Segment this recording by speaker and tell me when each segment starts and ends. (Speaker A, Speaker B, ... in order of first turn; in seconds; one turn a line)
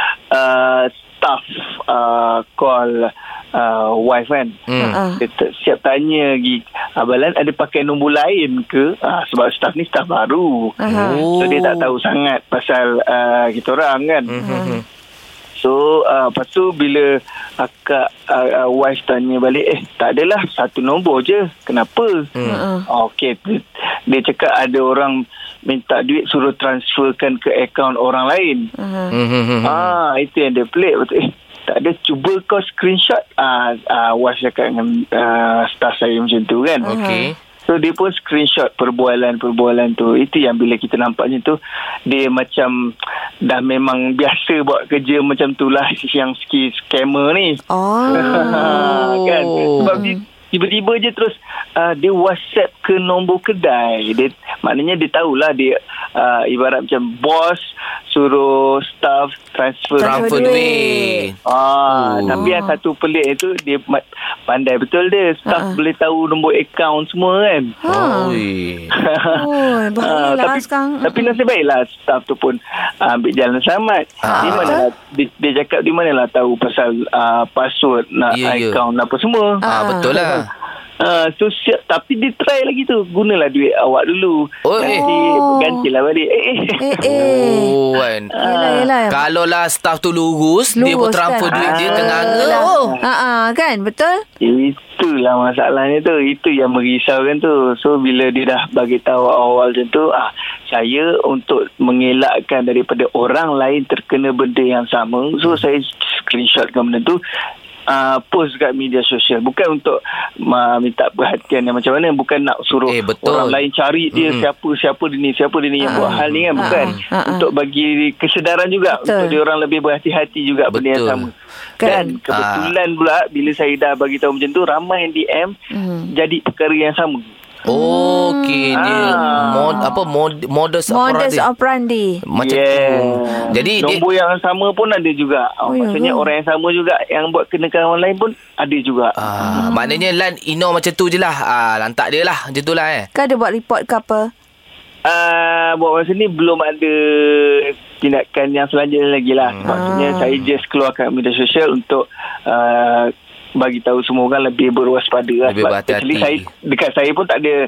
Speaker A: 0.3-4.6
Speaker B: 4.7-5.0
Speaker C: 4.8-5.2
Speaker A: 5.2-14.3
Speaker C: 10.8-11.2
Speaker B: 10.9-11.9
Speaker B: 14.3-14.8
Speaker C: 14.4-14.8
Speaker A: 15.6-17.1
Speaker A: 17.6-22.3
Speaker B: 22.4-22.6
Speaker C: 22.4-22.9
Speaker A: 22.9-28.7
Speaker C: 28.8-29.2
Speaker B: 29.1-30.0
Speaker A: 29.6-36.9
Speaker C: 36.8-37.3
Speaker B: 36.9-37.4
Speaker A: 37.6-42.7
Speaker A: 43.4-47.6
Speaker C: 47.7-49.0
Speaker B: 48.1-50.0
Speaker A: 48.1-60.6
Speaker C: 49.8-50.2
Speaker C: 60.0-61.3
Speaker B: 60.0-61.4
Speaker A: 61.5-67.8
Speaker B: 61.9-62.5
Speaker C: 62.3-62.8
Speaker C: 65.5-65.8
Speaker C: 67.8-68.4
Speaker B: 67.9-68.9
Speaker A: 69.0-79.6
Speaker C: 69.3-71.4
Speaker B: 74.2-74.8
Speaker C: 74.3-74.9
Speaker B: 78.3-78.8
Speaker C: 79.6-80.4
Speaker B: 79.7-80.5
Speaker A: 81.0-87.5
Speaker B: 84.7-85.1
Speaker C: 84.8-85.9
Speaker C: 86.8-87.8
Speaker B: 87.0-88.3
Speaker A: 88.4-88.9
Speaker C: 88.4-89.2
Speaker B: 89.1-93.0
Speaker C: 90.8-94.2
Speaker A: 91.5-93.0
Speaker A: 94.4-107.2
Speaker A: 107.9-125.5
Speaker B: 112.9-113.6
Speaker B: 114.1-114.5
Speaker C: 115.8-117.5
Speaker B: 115.9-117.0
Speaker C: 118.9-119.4
Speaker B: 120.7-121.3
Speaker C: 121.8-122.2
Speaker B: 121.8-122.7
Speaker C: 125.7-126.1
Speaker A: 126.1-127.3
Speaker C: 127.7-129.9
Speaker B: 127.7-131.5
Speaker A: 128.7-129.9
Speaker C: 130.9-132.2
Speaker B: 132.2-134.0
Speaker A: 132.4-139.7
Speaker C: 135.7-136.3
Speaker B: 139.2-143.1
Speaker C: 139.4-140.0
Speaker C: 143.1-144.3
Speaker A: 145.1-157.6
Speaker B: 149.4-149.8
Speaker C: 149.7-150.3
Speaker B: 155.4-156.5